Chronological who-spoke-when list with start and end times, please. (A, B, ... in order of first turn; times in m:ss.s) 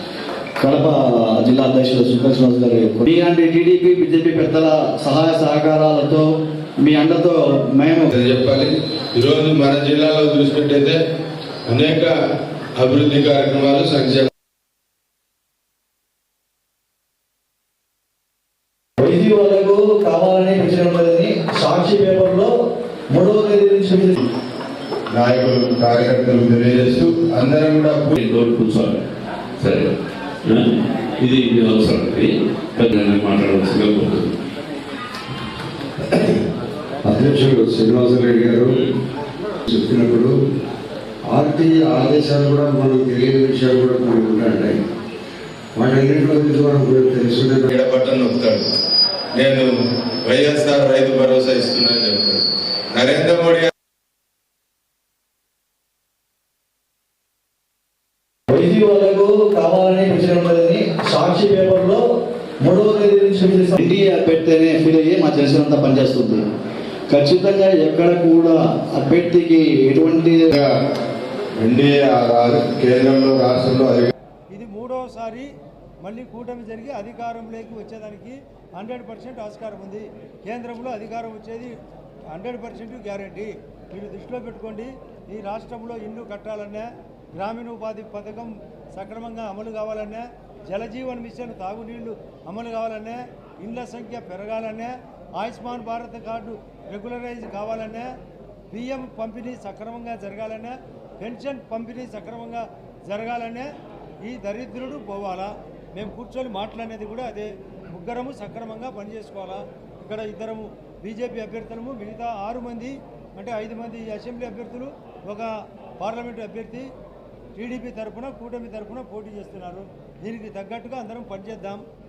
0:00.6-0:06.3 A
0:06.8-0:08.1 A
0:08.1-0:11.0 B
0:11.7-0:12.1 B
0:12.8-0:14.3 B
0:19.0-0:22.6 A
0:23.1-0:24.2 A
0:25.1-0:28.2 B
0:28.2-0:29.0 C
0:29.6-0:29.9 C
0:30.5-0:34.3 C
0:37.0-0:38.8 D
0:39.7-0:40.3 D
0:41.3-0:44.8 D
0:45.8-0:47.7 D
0:47.7-0:48.6 B
0:49.3-0:53.7 B
0:58.5-1:02.1 A
1:02.6-1:06.4 A
1:07.1-1:10.5 A
1:11.6-1:14.1 B
1:14.5-1:15.5 E
1:16.0-1:21.7 E
1:22.3-1:38.1 E
1:38.7-1:43.7 E
1:44.2-1:55.5 E
1:56.0-1:56.9 E
1:57.6-2:01.8 E